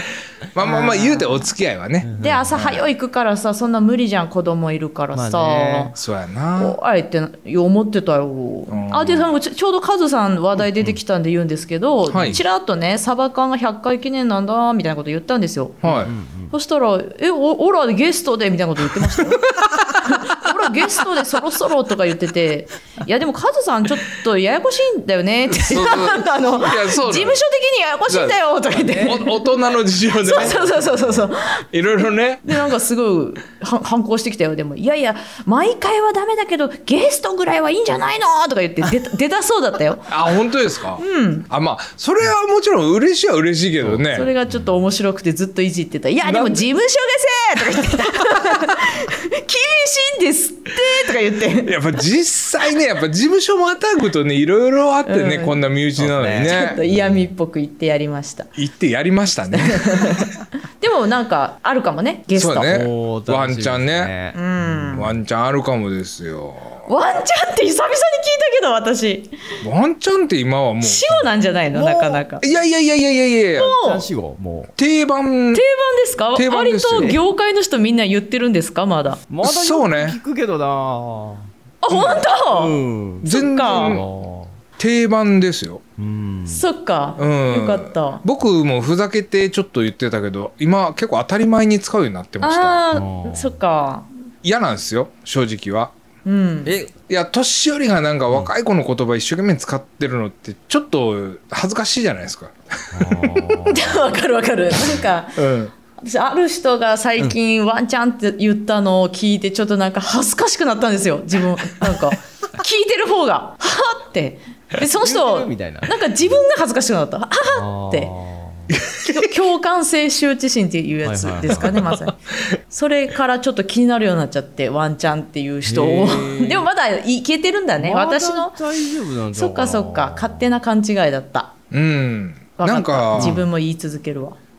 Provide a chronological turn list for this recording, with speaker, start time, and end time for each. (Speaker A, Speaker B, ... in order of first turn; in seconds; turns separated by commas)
Speaker A: 0.5-2.9, Speaker B: 0.6-1.5, Speaker C: 2.0-2.5, Speaker B: 2.2-6.0, Speaker C: 5.1-5.9, Speaker A: 6.0-6.8, Speaker B: 6.6-15.8, Speaker A: 8.7-9.3, Speaker A: 12.1-12.4, Speaker C: 12.1-12.4, Speaker A: 15.8-16.1, Speaker C: 15.8-16.5, Speaker B: 16.5-29.4, Speaker A: 19.2-20.3, Speaker A: 25.5-27.4, Speaker A: 28.1-28.4, Speaker C: 28.7-29.3, Speaker A: 29.0-31.0, Speaker C: 30.2-31.2, Speaker B: 30.2-40.4, Speaker A: 31.7-32.7, Speaker A: 40.1-44.3, Speaker B: 41.0-41.5, Speaker C: 43.8-44.7, Speaker B: 44.1-51.8, Speaker A: 46.2-46.6, Speaker A: 48.2-48.6, Speaker A: 51.6-56.8, Speaker B: 55.0-55.6, Speaker C: 56.0-57.3, Speaker B: 56.4-58.5, Speaker A: 58.5-60.3, Speaker B: 59.5-62.8, Speaker A: 62.3-64.1, Speaker C: 62.7-65.0, Speaker B: 64.3-65.1, Speaker A: 64.9-66.8, Speaker B: 66.9-69.3, Speaker A: 69.6-71.3, Speaker B: 70.8-72.4, Speaker C: 71.7-72.2, Speaker A: 72.4-73.8, Speaker B: 73.5-74.1, Speaker C: 73.8-74.7, Speaker A: 74.8-75.6, Speaker B: 75.5-79.2, Speaker A: 76.3-77.2, Speaker C: 79.3-81.5, Speaker A: 79.4-80.2, Speaker B: 81.8-84.0, Speaker A: 81.9-82.2, Speaker C: 82.5-84.6, Speaker A: 83.2-84.0, Speaker A: 84.8-85.8, Speaker C: 86.0-86.7, Speaker B: 86.5-88.2, Speaker A: 87.2-92.8, Speaker B: 92.4-94.1, Speaker C: 92.9-93.6, Speaker A: 94.4-95.9, Speaker B: 96.2-96.7, Speaker C: 96.6-96.9, Speaker A: 97.1-103.7, Speaker C: 102.9-104.0, Speaker B: 103.6-105.4, Speaker A: 105.4-105.7, Speaker B: 106.0-118.1, Speaker C: 114.9-116.4, Speaker C: 117.5-118.7, Speaker A: 118.7-119.3, Speaker B: 119.0-122.1, Speaker C: 121.0-121.9, Speaker B: 122.7-128.6, Speaker C: 125.6-126.7, Speaker C: 127.8-130.5, Speaker B: 129.3-131.5, Speaker A: 131.7-133.4, Speaker B: 132.6-134.4, Speaker C: 133.1-133.4